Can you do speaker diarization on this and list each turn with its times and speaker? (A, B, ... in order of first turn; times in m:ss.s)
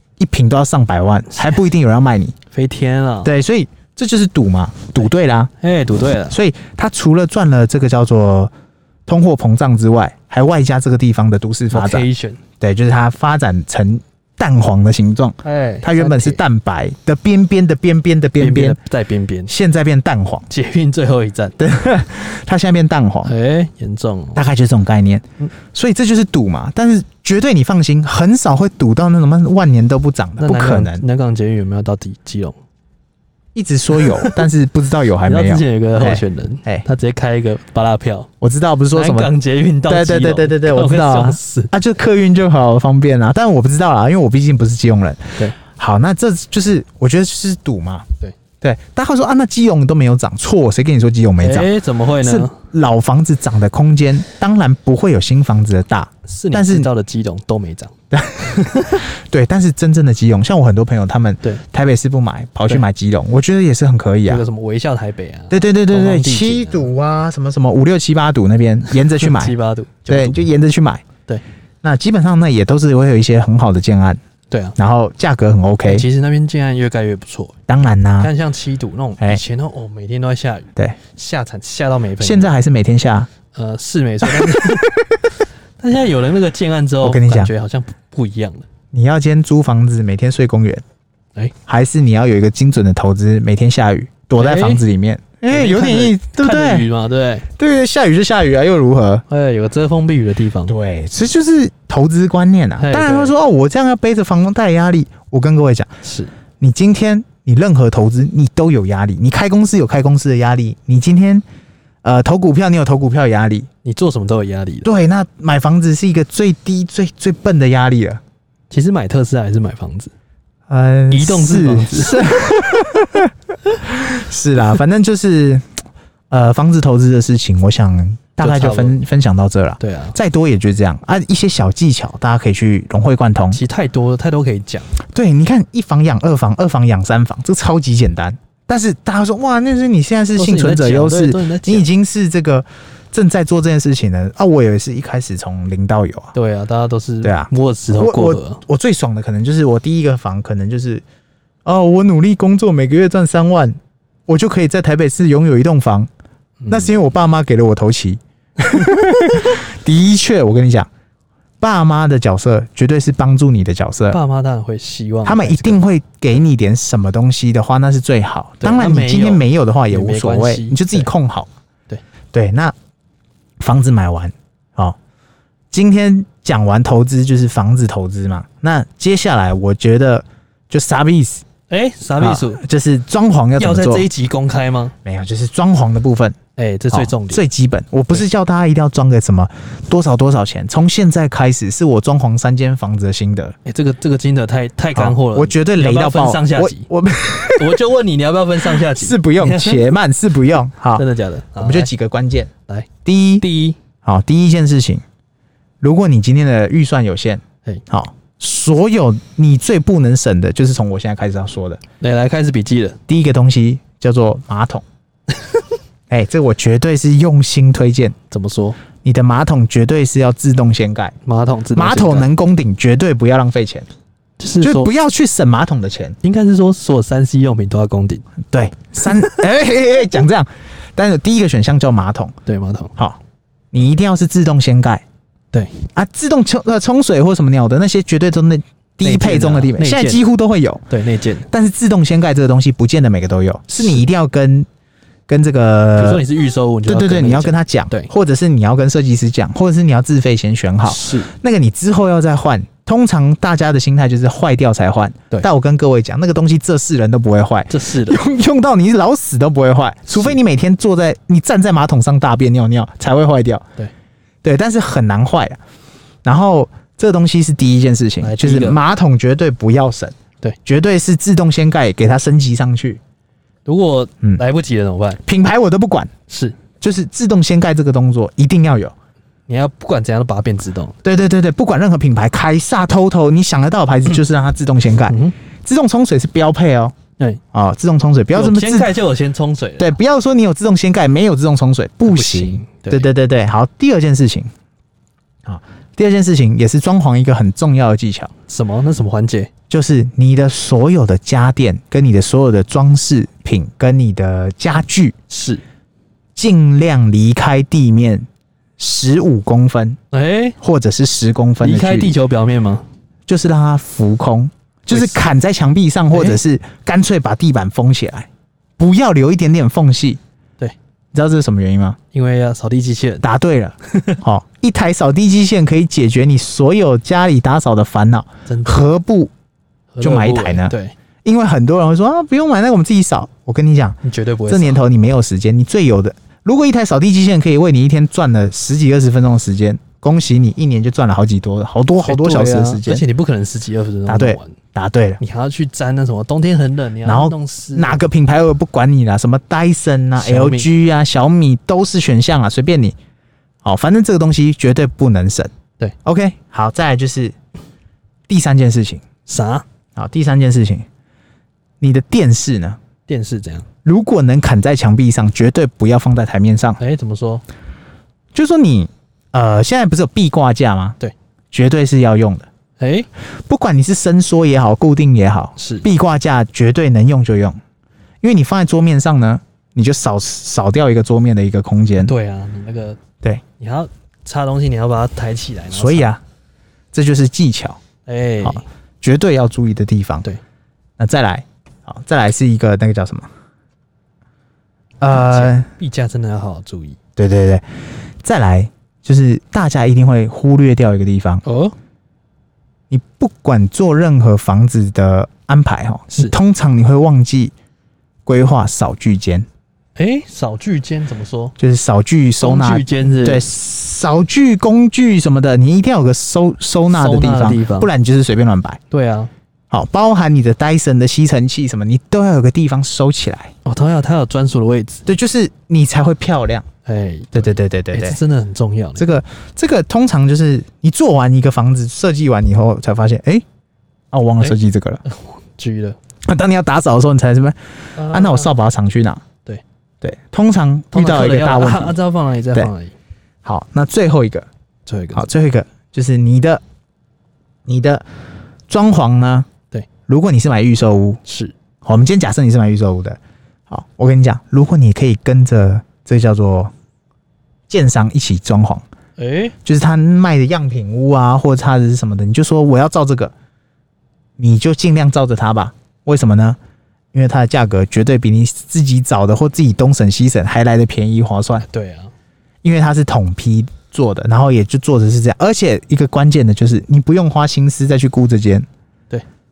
0:00.2-0:02.4 A
0:02.5-0:03.3 B
0:03.2-0:05.5 A
0:05.6-0:06.4 B
0:06.3-0:08.5 A
0:09.1-0:12.1 A
0:11.7-0:12.4 B
0:12.6-0:18.8 A
0:15.4-0:16.4 B
0:18.4-0:19.5 B
0:19.5-0:20.5 A
0:20.5-0:21.6 B
0:21.6-0:23.3 A
0:23.2-0:24.4 B
0:24.4-0:31.0 A
0:30.4-0:32.6 B
0:33.6-0:36.8 A
0:34.0-0:34.5 B
0:35.2-0:38.3 B
0:38.4-0:39.3 A
0:38.9-0:41.7 B
0:39.9-0:48.1 A
0:48.6-0:51.7 A
0:51.4-0:52.6 B
0:52.2-0:56.9 A
0:56.2-0:59.0 B
0:58.1-1:04.4 A
1:04.3-1:06.9 B
1:05.5-1:09.6 A
1:08.9-1:10.4 B
1:10.1-1:11.0 A
1:11.8-1:14.2 A
1:14.5-1:14.8 B
1:14.8-1:16.1 A
1:15.8-1:17.6 B
1:17.7-1:18.3 A
1:18.2-1:22.6 B
1:22.2-1:23.3 A
1:23.5-1:25.0 B
1:24.2-1:25.2 A
1:25.8-1:28.7 B
1:27.0-1:27.5 A
1:28.9-1:30.8 A
1:31.7-1:36.9 A
1:34.4-1:34.8 B
1:35.5-1:37.5 B
1:37.6-1:39.2 A
1:39.3-1:40.8 B
1:40.7-1:45.9 A
1:42.8-1:43.3 B
1:46.0-1:46.3 B
1:46.6-1:51.4 A
1:52.0-1:53.7 A
1:53.8-1:54.9 B
1:54.8-1:58.2 A
1:58.7-2:00.1 B
2:00.7-2:05.7 A
2:01.1-2:02.5 B
2:06.3-2:13.6 A
2:08.4-2:09.0 B
2:09.8-2:10.2 B
2:13.5-2:15.0 B
2:15.1-2:26.3 A
2:20.4-2:21.9 B
2:26.3-2:28.6 B
2:27.2-2:31.0 A
2:31.6-2:36.1 A
2:36.6-2:36.9 B
2:36.7-2:40.9 A
2:41.6-2:44.2 A
2:44.1-2:45.8 B
2:45.2-2:51.5 A
2:48.6-2:51.1 B
2:52.3-2:52.8 A
2:53.6-2:55.0 A
2:55.7-3:01.4 A
3:01.7-3:02.6 B
3:02.2-3:04.1 A
3:03.6-3:05.0 B
3:05.0-3:06.4 A
3:06.6-3:07.4 B
3:06.9-3:13.6 A
3:13.7-3:16.9 B
3:15.0-3:17.8 A
3:17.6-3:19.8 B
3:18.6-3:21.0 A
3:21.0-3:21.9 B
3:21.6-3:22.5 A
3:23.0-3:23.5 A
3:23.4-3:23.8 B
3:24.0-3:25.0 A
3:25.8-3:31.8 A
3:32.0-3:33.0 B
3:33.1-3:34.8 A
3:36.1-3:38.2 A
3:38.3-3:38.8 B
3:39.0-3:41.2 A
3:41.2-3:42.3 B
3:41.7-3:43.9 A
3:44.4-3:44.9 B
3:44.6-3:46.2 A
3:46.2-3:48.3 B
3:48.5-3:52.4 A
3:52.5-3:52.9 B
3:53.7-3:55.0 A
3:55.9-4:00.9 A
3:59.0-4:00.2 B
4:00.9-4:01.5 B
4:01.5-4:04.7 A
4:05.3-4:06.2 A
4:06.0-4:08.1 B
4:06.9-4:23.7 A
4:10.8-4:11.3 B
4:17.7-4:18.2 B
4:20.1-4:20.4 B
4:24.4-4:25.6 A
4:26.2-4:33.0 A
4:28.2-4:28.8 B
4:33.7-4:35.2 B
4:35.2-4:36.1 A
4:36.3-4:36.6 B
4:36.8-4:39.0 A
4:39.5-4:41.0 B
4:41.0-4:47.0 A
4:45.1-4:45.4 B
4:47.5-4:48.9 A
4:48.3-4:50.0 B
4:49.8-4:54.5 A
4:52.1-4:53.1 B
4:55.5-4:58.3 A
4:58.5-4:59.5 B
4:59.7-5:05.2 A
5:05.3-5:05.6 B
5:06.4-5:10.0 A
5:10.1-5:10.6 B
5:10.6-5:12.2 A
5:11.6-5:12.8 B
5:13.3-5:20.2 A
5:14.9-5:15.2 B
5:16.1-5:16.4 B
5:21.1-5:22.0 A
5:22.1-5:23.2 B
5:23.2-5:29.3 A
5:23.8-5:24.2 B
5:28.5-5:28.9 B
5:29.9-5:31.0 B
5:30.0-5:43.0 A
5:34.0-5:34.8 B
5:42.0-5:44.6 B
5:44.1-5:45.2 A
5:45.2-5:48.0 B
5:47.0-5:53.0 A
5:50.2-5:50.7 B
5:53.6-5:55.5 A
5:56.0-5:57.4 A
5:58.3-5:59.0 A
5:59.3-5:59.6 B
6:00.0-6:00.9 A
6:01.8-6:02.8 A
6:03.1-6:03.7 B
6:03.8-6:06.8 A
6:06.8-6:07.4 B
6:08.3-6:11.0 A
6:11.5-6:12.5 A
6:12.8-6:13.1 B
6:13.5-6:17.6 A
6:15.6-6:15.9 B
6:18.2-6:22.1 A
6:22.0-6:23.0 B
6:23.6-6:26.1 B
6:25.7-6:26.2 A
6:26.9-6:27.8 A
6:28.1-6:28.6 B
6:28.4-6:30.3 A
6:31.0-6:33.3 A
6:35.0-6:35.7 A
6:35.1-6:37.0 B
6:37.2-6:37.6 A
6:38.2-6:41.4 A
6:41.4-6:41.8 B
6:42.9-6:47.5 A
6:48.3-6:49.5 A
6:50.0-6:51.5 B
6:51.6-6:58.8 A
6:52.4-6:53.5 B
6:56.9-6:57.9 B
6:58.9-6:59.3 B
6:59.7-7:03.5 A
7:03.6-7:05.1 B
7:05.1-7:06.7 A
7:06.8-7:09.1 B
7:07.3-7:08.2 A
7:09.0-7:13.4 A
7:14.1-7:15.0 A
7:14.4-7:16.0 B
7:16.2-7:19.2 A
7:18.0-7:18.5 B
7:20.0-7:22.0 A
7:20.9-7:22.9 B
7:23.4-7:24.5 A
7:24.9-7:25.3 B
7:25.1-7:26.6 A
7:27.7-7:28.0 A
7:28.7-7:29.5 A
7:30.1-7:31.2 A
7:31.3-7:31.5 B
7:31.8-7:36.7 A
7:37.7-7:38.9 A
7:39.2-7:39.6 B
7:39.6-7:43.3 A
7:44.4-7:46.6 A
7:47.1-7:51.6 A
7:51.6-7:52.1 B
7:52.6-7:58.7 A